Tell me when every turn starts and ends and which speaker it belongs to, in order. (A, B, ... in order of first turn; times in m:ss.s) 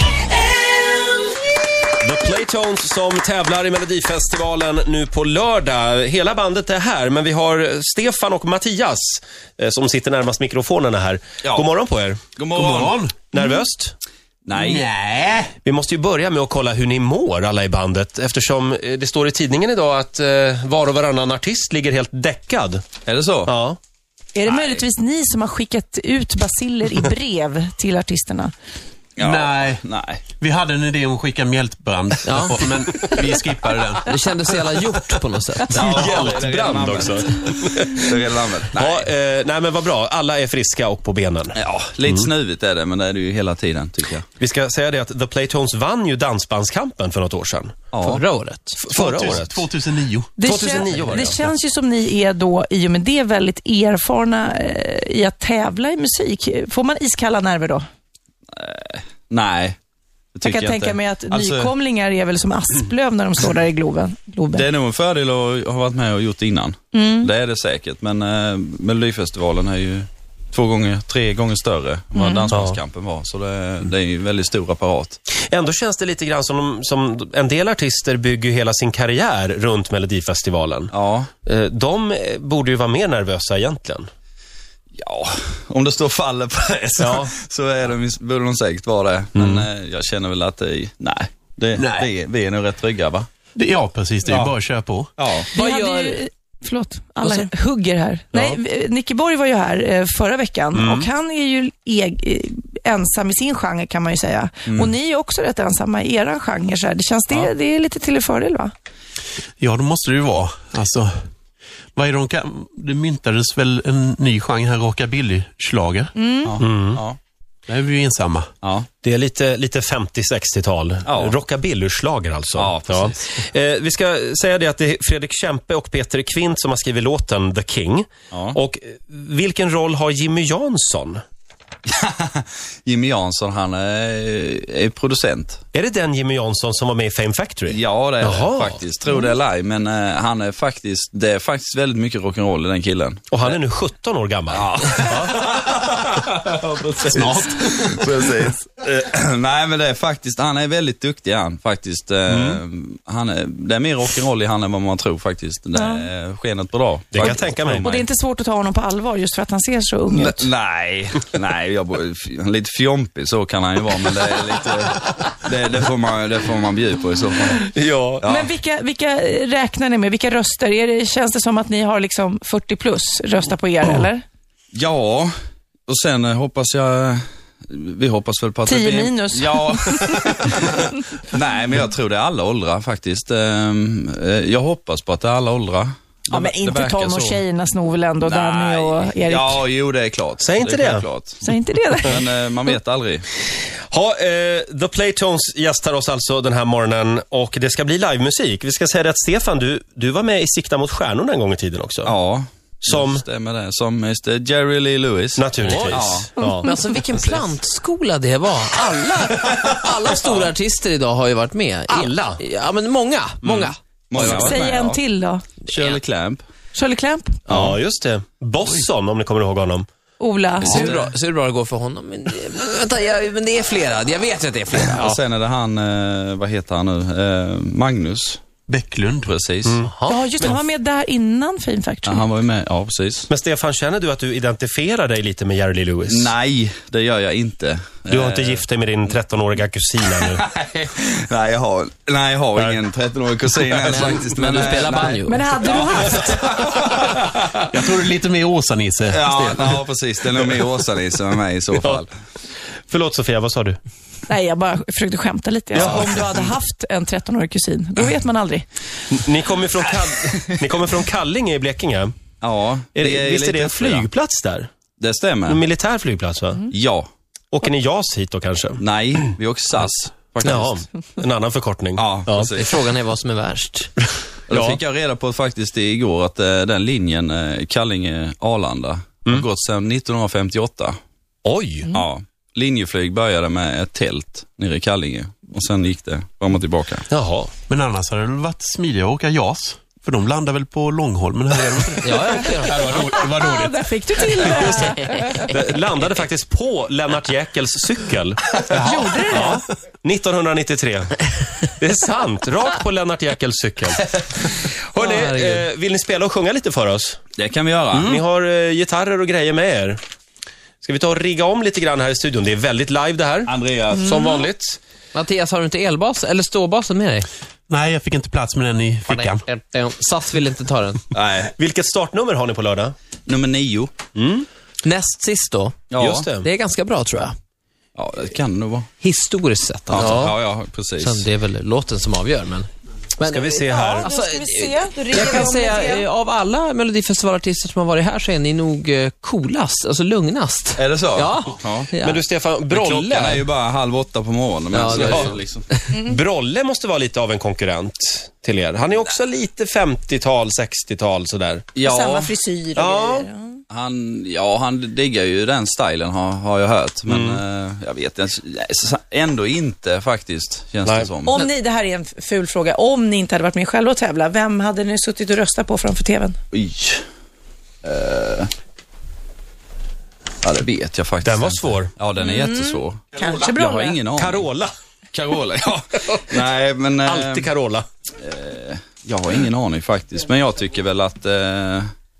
0:02.0-0:12.2 A
0:12.4-0:13.0 B
0:12.5-0:13.2 C
0:13.3-0:14.0 A
0:14.5-0:14.9 B
0:14.5-0:15.6 C
0:15.6-0:22.8 A
0:23.1-0:23.5 B
0:23.5-0:23.8 A
0:24.4-0:28.5 D
0:24.5-0:24.8 B
0:29.2-0:30.2 B
0:29.2-0:29.8 C
0:30.4-0:35.2 C
0:32.2-0:32.8 E
0:34.0-0:35.7 E
0:35.7-0:39.1 B
0:35.7-0:38.2 A
0:38.7-0:42.3 A
0:41.6-0:44.3 B
0:44.4-0:47.8 A
0:47.9-0:48.2 B
0:48.0-0:48.8 E
0:48.8-0:49.6 A
0:48.9-0:50.3 C
0:50.4-0:57.8 D
0:50.4-0:51.4 A
0:58.5-0:59.8 B
1:00.4-1:01.7 B
1:00.4-1:04.7 D
1:04.5-1:15.2 B
1:06.9-1:07.3 D
1:12.2-1:12.5 D
1:12.5-1:12.8 A
1:15.5-1:20.9 A
1:20.9-1:21.3 B
1:21.5-1:24.1 A
1:25.0-1:33.3 B
1:27.0-1:27.3 A
1:29.4-1:29.7 A
1:31.8-1:32.1 C
1:33.6-1:35.1 C
1:34.3-1:34.5 B
1:35.2-1:35.5 B
1:35.5-1:36.2 E
1:35.5-1:48.7 D
1:37.2-1:37.5 E
1:40.7-1:41.1 A
1:44.7-1:44.9 B
1:49.6-1:51.3 C
1:52.0-1:56.1 C
1:56.2-1:56.6 D
1:56.4-1:57.2 B
1:56.6-1:57.0 A
1:57.7-1:58.5 C
1:58.6-1:58.9 B
1:59.0-2:11.2 A
2:01.1-2:01.4 B
2:02.6-2:03.2 B
2:08.3-2:08.6 B
2:11.9-2:15.6 B
2:15.7-2:18.8 A
2:17.7-2:23.6 B
2:23.3-2:25.4 A
2:24.5-2:38.1 B
2:27.1-2:28.1 C
2:32.3-2:32.6 A
2:35.8-2:36.1 D
2:37.1-2:37.9 A
2:37.2-2:40.5 D
2:40.1-2:47.7 B
2:47.7-2:48.2 A
2:48.2-2:48.5 B
2:48.2-2:54.2 D
2:54.7-2:55.3 B
2:55.9-3:07.4 B
2:58.7-3:00.9 D
3:06.3-3:09.6 D
3:08.2-3:13.2 B
3:10.4-3:11.1 A
3:11.4-3:12.2 D
3:13.9-3:22.1 A
3:22.1-3:26.3 B
3:22.8-3:23.2 A
3:25.4-3:26.7 A
3:25.6-3:26.0 E
3:26.4-3:26.9 D
3:26.6-3:34.6 E
3:27.1-3:27.5 B
3:31.9-3:32.4 A
3:33.4-3:35.0 B
3:34.2-3:35.5 D
3:35.7-3:36.4 B
3:36.8-3:37.4 D
3:37.5-3:37.8 B
3:37.5-3:39.9 A
3:38.6-3:38.9 C
3:40.2-3:41.0 D
3:40.6-3:41.1 B
3:40.7-3:45.0 E
3:44.8-3:48.4 B
3:44.9-3:45.2 A
3:48.7-3:49.4 C
3:49.3-3:49.8 B
3:49.6-3:49.9 A
3:49.9-3:50.2 E
3:50.0-3:52.2 D
3:52.0-3:53.3 B
3:53.3-3:56.3 A
3:56.1-3:58.6 B
3:58.1-4:00.5 A
4:00.2-4:07.3 B
4:03.8-4:05.5 E
4:05.2-4:06.5 D
4:07.6-4:09.8 C
4:09.1-4:12.1 B
4:11.8-4:12.0 A
4:12.9-4:13.8 A
4:14.3-4:18.6 D
4:15.7-4:16.5 A
4:15.8-4:16.4 B
4:19.1-4:22.2 A
4:22.4-4:24.1 B
4:23.0-4:24.7 A
4:25.0-4:25.6 B
4:25.5-4:26.7 A
4:26.7-4:27.1 B
4:27.5-4:28.8 A
4:28.8-4:30.8 B
4:30.4-4:32.5 A
4:32.0-4:32.9 B
4:32.6-4:34.0 E
4:34.5-4:41.0 B
4:34.5-4:34.8 A
4:41.4-4:41.9 A
4:41.9-4:47.1 B
4:47.1-4:47.5 A
4:47.7-4:53.8 C
4:52.0-4:53.0 E
4:52.9-4:55.5 D
4:54.5-4:55.5 E
4:55.4-4:58.6 A
4:58.7-4:59.6 D
4:58.7-4:59.6 C
4:59.3-5:01.2 A
5:01.8-5:04.2 A
5:04.9-5:07.2 A
5:05.0-5:05.6 E
5:07.4-5:08.2 B
5:07.9-5:10.0 A
5:10.8-5:14.8 A
5:13.5-5:14.2 B
5:15.1-5:17.3 E
5:17.7-5:19.4 C
5:19.1-5:21.0 E
5:21.1-5:21.5 B
5:21.6-5:22.9 A
5:23.3-5:23.9 B
5:24.2-5:24.5 A
5:24.8-5:25.8 E
5:25.9-5:26.3 B
5:26.0-5:26.5 A
5:26.4-5:27.4 E
5:28.0-5:28.9 B
5:29.0-5:30.4 E
5:29.9-5:31.3 B
5:31.0-5:32.7 E
5:33.2-5:42.2 E
5:33.2-5:34.1 A
5:33.6-5:36.1 D
5:40.8-5:41.9 B
5:42.0-5:43.4 A
5:42.7-5:45.7 B
5:42.9-5:43.4 E
5:44.7-5:45.9 E
5:44.9-5:45.3 A
5:45.9-5:51.7 A
5:45.9-5:46.2 D
5:51.8-5:52.3 B
5:51.8-5:53.6 D
5:52.8-5:53.3 A
5:53.7-6:01.4 B
5:57.1-5:57.4 A
6:00.8-6:01.1 A
6:01.3-6:06.4 D
6:06.5-6:07.0 B
6:07.8-6:08.5 B
6:10.4-6:14.5 B
6:11.2-6:11.9 A
6:12.2-6:14.0 D
6:14.2-6:14.7 A
6:15.1-6:17.5 B
6:17.0-6:17.8 A
6:18.2-6:21.9 B